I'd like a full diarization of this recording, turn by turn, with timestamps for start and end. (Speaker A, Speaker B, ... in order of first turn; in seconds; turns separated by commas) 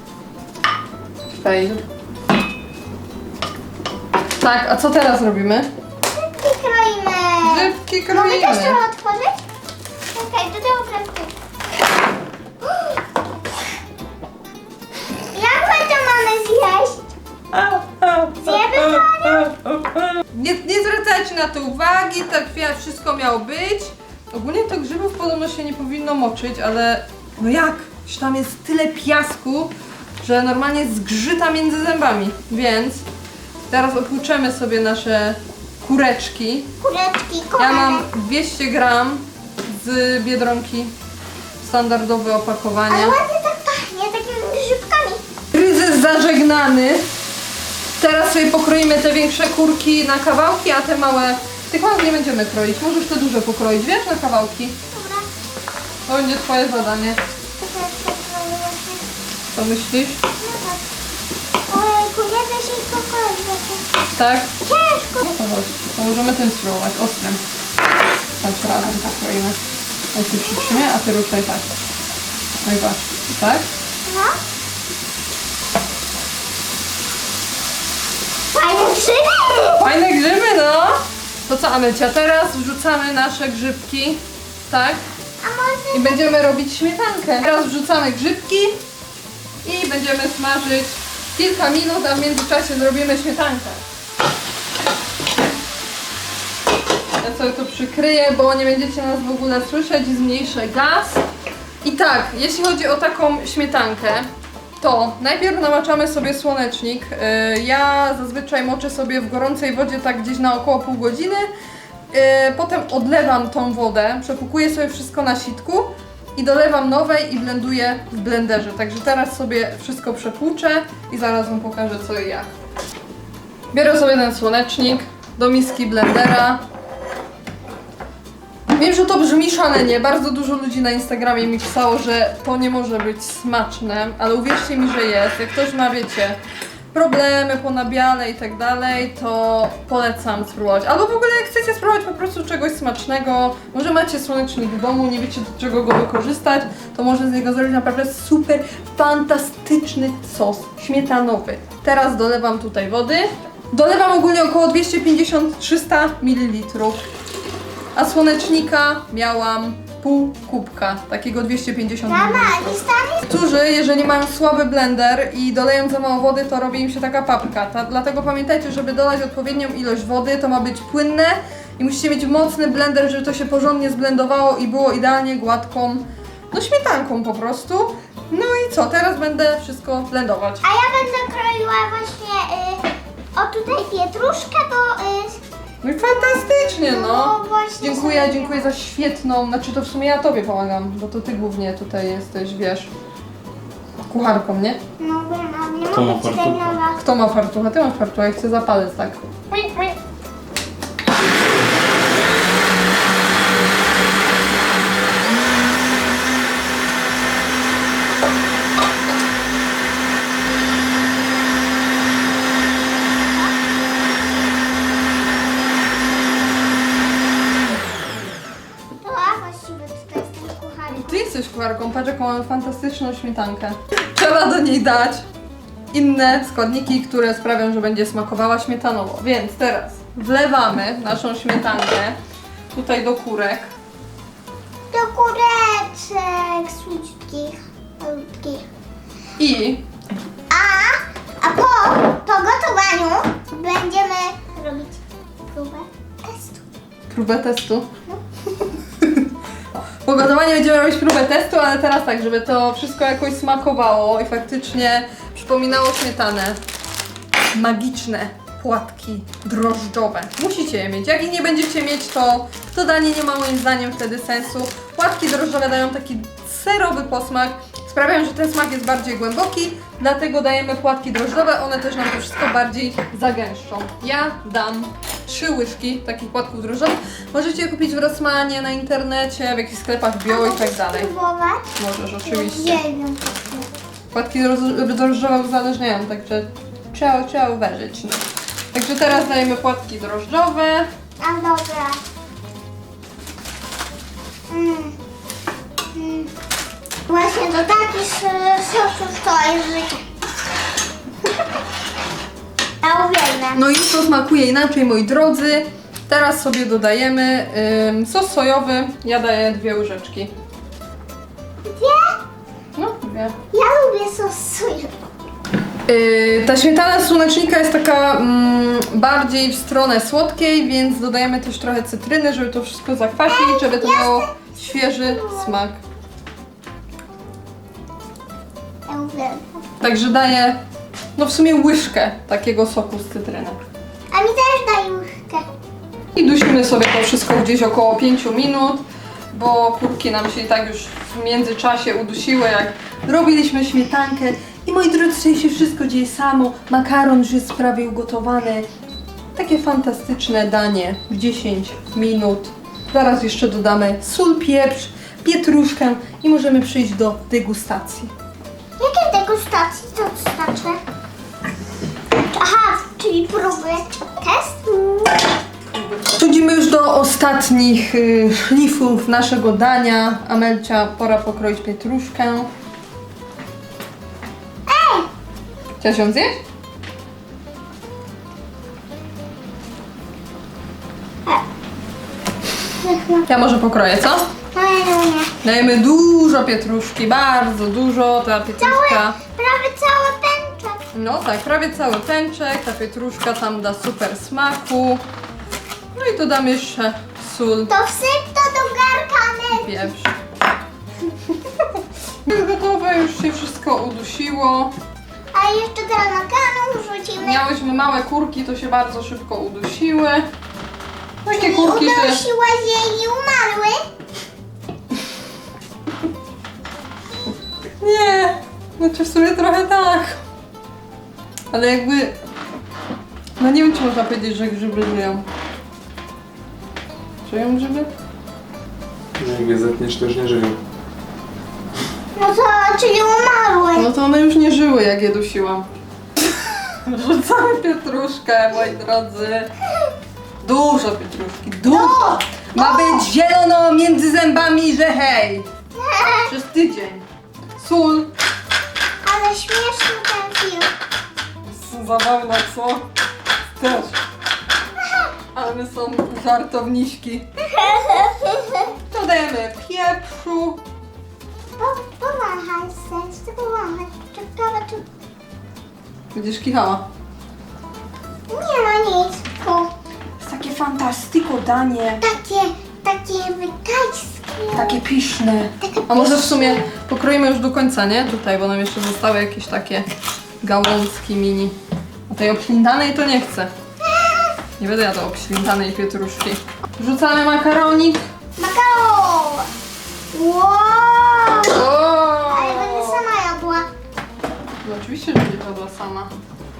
Speaker A: 1.3-1.8, Speaker A: 4.4-5.7, Speaker B: 6.1-9.4, Speaker A: 7.4-8.8, Speaker B: 10.1-11.3, Speaker B: 12.7-12.9, Speaker B: 15.3-17.0, Speaker A: 17.5-33.0, Speaker B: 18.4-19.4, Speaker A: 33.7-36.7, Speaker B: 36.8-38.1, Speaker A: 37.6-40.9, Speaker A: 41.6-43.2, Speaker B: 42.9-45.2, Speaker A: 45.5-47.0, Speaker A: 48.0-54.8, Speaker B: 54.9-55.3, Speaker A: 56.0-57.2, Speaker B: 57.6-59.0, Speaker A: 59.5-60.2, Speaker B: 60.4-60.8, Speaker B: 61.7-63.9, Speaker A: 64.1-64.5, Speaker B: 64.6-65.2, Speaker A: 65.2-67.4, Speaker A: 68.4-69.6, Speaker A: 70.1-71.6, Speaker A: 72.6-73.7, Speaker B: 74.0-74.3, Speaker B: 78.5-79.9, Speaker A: 79.8-85.0, Speaker B: 85.4-86.2, Speaker A: 85.9-88.8, Speaker A: 89.6-93.8, Speaker A: 97.2-101.2, Speaker A: 101.8-104.3, Speaker A: 104.8-111.5, Speaker A: 112.1-122.5, Speaker A: 123.7-126.6, Speaker A: 128.7-136.4, Speaker A: 136.9-157.0, Speaker A: 157.9-180.7, Speaker B: 162.1-163.2, Speaker B: 180.6-185.4, Speaker A: 185.8-192.9, Speaker B: 186.0-188.7, Speaker A: 194.1-194.8, Speaker B: 195.0-197.0, Speaker C: 195.9-196.7, Speaker A: 197.0-199.3, Speaker B: 199.5-199.9, Speaker B: 219.0-221.3, Speaker A: 220.9-225.2, Speaker A: 225.9-232.2, Speaker A: 232.7-233.7, Speaker B: 234.9-238.6, Speaker A: 239.4-239.8, Speaker B: 240.5-245.0, Speaker B: 245.5-246.6, Speaker A: 247.1-247.9, Speaker A: 249.0-249.3, Speaker A: 250.0-256.6, Speaker A: 257.5-281.1, Speaker B: 280.3-281.6, Speaker A: 281.8-282.8, Speaker B: 282.2-283.7, Speaker A: 284.1-290.9, Speaker B: 291.2-292.0, Speaker B: 294.5-294.9, Speaker B: 295.9-296.3, Speaker B: 297.1-300.0, Speaker B: 302.8-303.6, Speaker A: 303.5-310.3, Speaker B: 311.6-312.2, Speaker A: 312.7-313.3, Speaker B: 313.5-314.9, Speaker A: 315.9-325.8, Speaker B: 323.2-325.5, Speaker B: 328.9-329.6, Speaker A: 329.8-330.6, Speaker A: 331.1-333.6, Speaker B: 334.1-335.4, Speaker A: 336.1-348.7, Speaker A: 349.3-358.1, Speaker B: 358.8-360.8, Speaker B: 362.2-365.3, Speaker A: 365.7-372.5, Speaker B: 374.7-375.1, Speaker A: 375.8-376.4, Speaker B: 382.7-383.2, Speaker A: 383.3-384.3, Speaker B: 384.5-385.3, Speaker A: 385.4-389.2, Speaker B: 388.6-390.8, Speaker A: 390.9-395.0, Speaker A: 395.9-397.7, Speaker B: 397.7-399.9, Speaker A: 399.5-400.1, Speaker A: 401.5-404.7, Speaker B: 405.3-407.4, Speaker A: 407.2-410.3, Speaker A: 411.2-412.2, Speaker B: 411.3-413.8, Speaker A: 417.8-420.2, Speaker A: 421.5-422.1, Speaker A: 423.4-425.2, Speaker A: 427.2-427.9, Speaker C: 429.1-430.6, Speaker B: 432.1-433.9, Speaker A: 433.7-435.7, Speaker A: 436.2-439.5, Speaker A: 440.4-445.5, Speaker B: 441.7-443.1, Speaker B: 445.7-446.3, Speaker A: 446.3-447.0, Speaker A: 447.6-448.1, Speaker B: 449.0-450.7, Speaker A: 451.4-452.8, Speaker A: 453.6-454.0, Speaker B: 454.8-455.1, Speaker A: 455.3-457.3, Speaker B: 457.4-458.7, Speaker A: 458.9-460.6, Speaker B: 461.6-464.8, Speaker A: 466.1-466.8, Speaker B: 468.3-469.7, Speaker A: 470.2-472.1, Speaker B: 472.0-474.8, Speaker A: 474.5-479.9, Speaker B: 475.6-476.7, Speaker A: 480.4-481.5, Speaker A: 482.1-483.5, Speaker B: 483.8-484.4, Speaker A: 484.6-488.0, Speaker B: 488.4-489.5, Speaker B: 490.1-491.6, Speaker A: 491.5-493.1, Speaker B: 492.2-493.6, Speaker A: 494.6-496.1